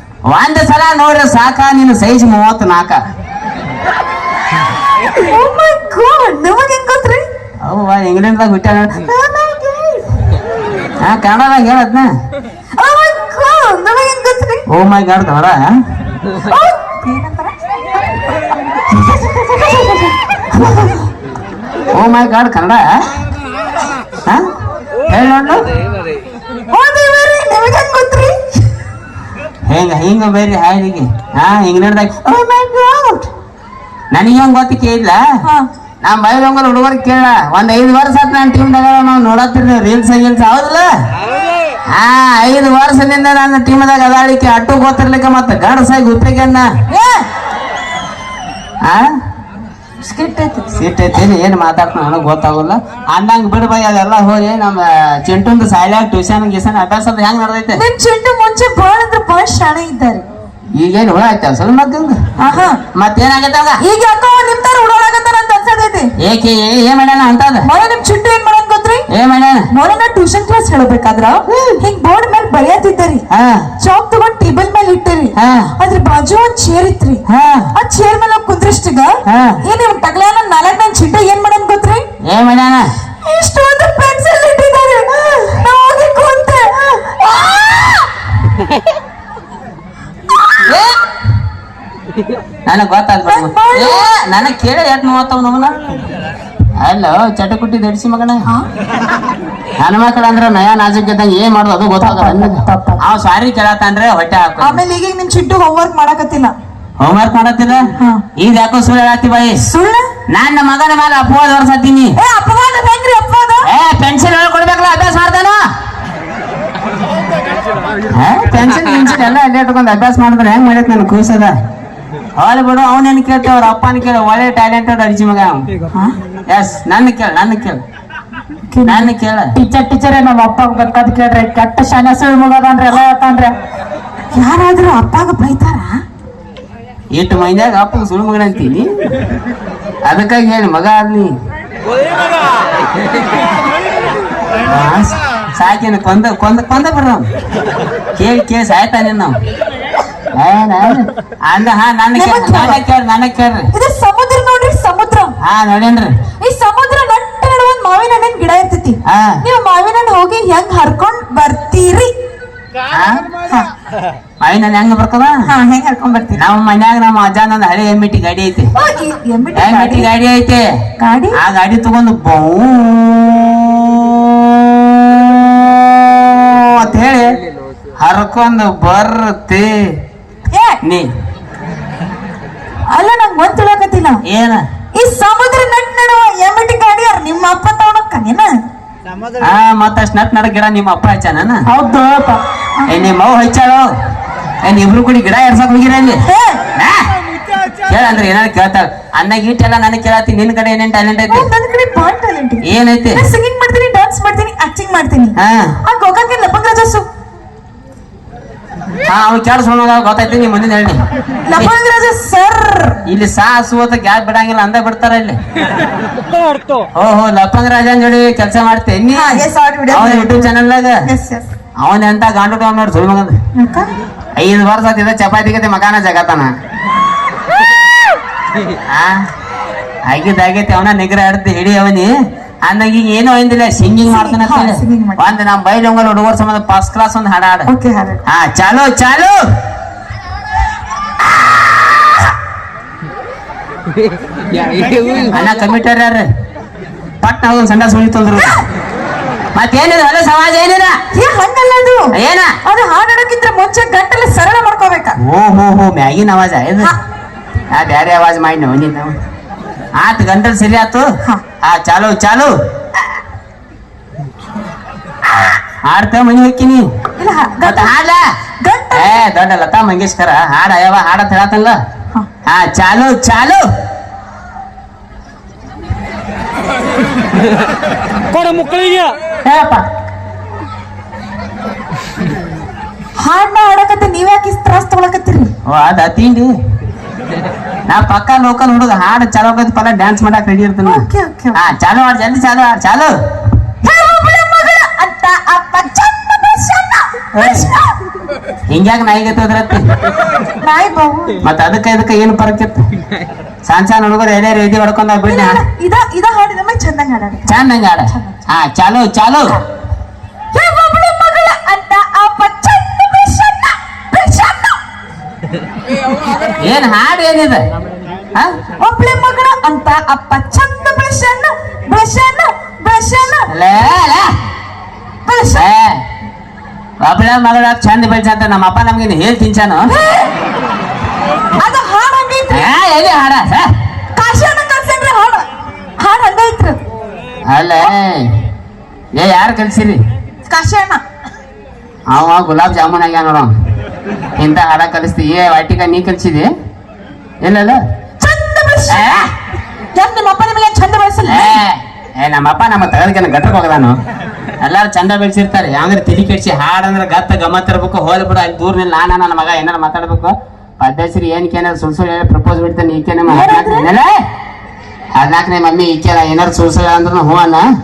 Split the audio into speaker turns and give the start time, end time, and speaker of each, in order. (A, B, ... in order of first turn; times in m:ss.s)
0:00.3-0:03.0 A
0:05.2-0:07.2 B
0:07.6-0:09.1 A
0:09.1-0:10.0 B
0:11.0-0:12.1 A
0:12.8-0:14.6 B
0:14.7-0:15.7 A
0:16.4-0:17.5 B
0:18.9-0:20.2 B
0:20.5-0:21.0 A
0:21.9-0:22.8 A
0:25.0-0:25.7 A
0:26.7-0:28.7 B
0:29.7-0:33.3 A
0:34.1-0:35.2 A
0:35.4-0:35.7 B
0:36.0-0:40.9 A
0:41.9-0:46.7 A
0:46.9-0:47.3 B
0:50.0-0:50.7 B
0:50.7-0:57.8 A
0:57.8-1:00.2 B
1:00.8-1:02.2 A
1:02.4-1:02.8 B
1:02.9-1:03.8 A
1:03.8-1:06.1 B
1:06.2-1:07.7 A
1:07.6-1:09.1 B
1:09.1-1:09.6 A
1:09.7-1:13.2 B
1:11.5-1:11.8 A
1:13.3-1:13.7 A
1:13.8-1:17.2 B
1:15.4-1:15.7 A
1:17.3-1:17.7 A
1:17.7-1:22.1 B
1:19.2-1:19.6 A
1:22.2-1:22.8 A
1:23.2-1:28.1 B
1:30.6-1:31.0 A
1:32.7-1:35.8 A
1:33.2-1:34.1 B
1:36.8-1:38.4 A
1:39.8-1:44.8 A
1:42.0-1:43.0 C
1:44.6-1:46.5 B
1:47.0-1:47.8 A
1:48.0-1:48.2 B
1:48.4-1:49.6 A
1:49.6-1:50.1 B
1:50.3-1:52.2 A
1:52.2-1:53.7 B
1:53.6-1:55.6 A
1:58.1-2:01.5 A
2:02.4-2:05.6 A
2:06.5-2:07.8 A
2:08.7-2:09.1 B
2:08.8-2:09.5 A
2:09.5-2:13.5 C
2:14.3-2:16.0 B
2:17.1-2:18.9 A
2:20.1-2:21.3 A
2:24.7-2:27.3 A
2:28.1-2:29.4 A
2:30.4-2:33.7 A
2:32.1-2:32.8 B
2:33.7-2:35.4 B
2:35.4-2:36.1 A
2:36.4-2:42.1 B
2:39.1-2:39.4 A
2:42.9-2:43.3 A
2:43.4-2:43.7 B
2:44.4-2:45.5 A
2:45.5-2:46.4 B
2:46.3-2:48.7 A
2:48.7-2:50.1 B
2:49.5-2:50.6 A
2:51.0-2:51.4 B
2:51.4-2:57.4 A
2:58.0-2:59.7 A
3:00.5-3:00.8 B
3:00.8-3:01.1 A
3:02.9-3:04.2 B
3:04.2-3:04.6 A
3:04.9-3:08.5 B
3:09.4-3:11.7 A
3:11.7-3:12.4 C
3:12.8-3:13.1 B
3:12.9-3:13.8 A
3:14.6-3:16.2 A
3:16.2-3:16.6 B
3:16.8-3:17.1 A
3:17.8-3:21.5 A
3:21.3-3:27.0 B
3:22.6-3:23.2 A
3:25.4-3:25.7 A
3:29.1-3:31.0 A
3:31.5-3:33.0 B
3:33.0-3:35.4 A
3:37.0-3:41.0 A
3:39.1-3:40.5 B
3:41.0-3:41.5 B
3:41.8-3:43.3 A
3:43.5-3:43.9 B
3:44.4-3:46.5 A
3:48.9-3:49.2 A
3:50.1-3:52.1 A
3:52.6-3:57.7 A
3:54.0-3:55.2 B
3:57.7-3:58.2 B
3:58.3-3:59.4 A
4:05.3-4:06.2 A
4:07.2-4:08.6 A
4:09.5-4:10.9 A
4:11.1-4:12.1 B
4:12.1-4:12.5 A
4:12.6-4:15.2 B
4:15.2-4:16.9 A
4:17.7-4:19.2 A
4:20.0-4:21.0 A
4:21.6-4:22.5 A
4:25.8-4:26.8 A
4:27.2-4:28.0 B
4:27.6-4:28.2 A
4:28.6-4:29.2 B
4:28.9-4:31.8 A
4:32.4-4:33.6 A
4:38.4-4:39.8 C
4:43.2-4:45.5 B
4:45.7-4:46.5 A
4:47.9-4:53.1 A
4:50.8-4:51.6 B
4:53.8-4:58.0 B
4:57.3-4:57.7 A
4:58.7-4:59.9 A
5:00.6-5:01.4 B
5:01.4-5:02.8 A
5:03.6-5:05.6 A
5:05.2-5:08.4 B
5:07.5-5:09.6 A
5:10.5-5:14.8 B
5:16.6-5:17.6 A
5:18.8-5:23.5 B
5:23.5-5:24.3 A
5:25.2-5:25.7 B
5:25.5-5:25.9 A
5:27.0-5:29.9 A
5:29.8-5:30.3 B
5:31.6-5:32.7 B
5:32.5-5:33.7 A
5:34.1-5:35.4 B
5:36.0-5:36.8 B
5:37.5-5:38.3 A
5:39.2-5:40.0 A
5:40.5-5:41.0 B
5:42.1-5:43.5 A
5:44.4-5:46.5 A
5:47.4-5:47.8 A
5:48.2-5:49.2 B
5:48.9-5:49.3 A
5:49.9-5:51.6 B
5:51.2-5:54.0 A
5:54.6-6:04.1 A
6:03.2-6:03.9 B
6:05.2-6:07.6 A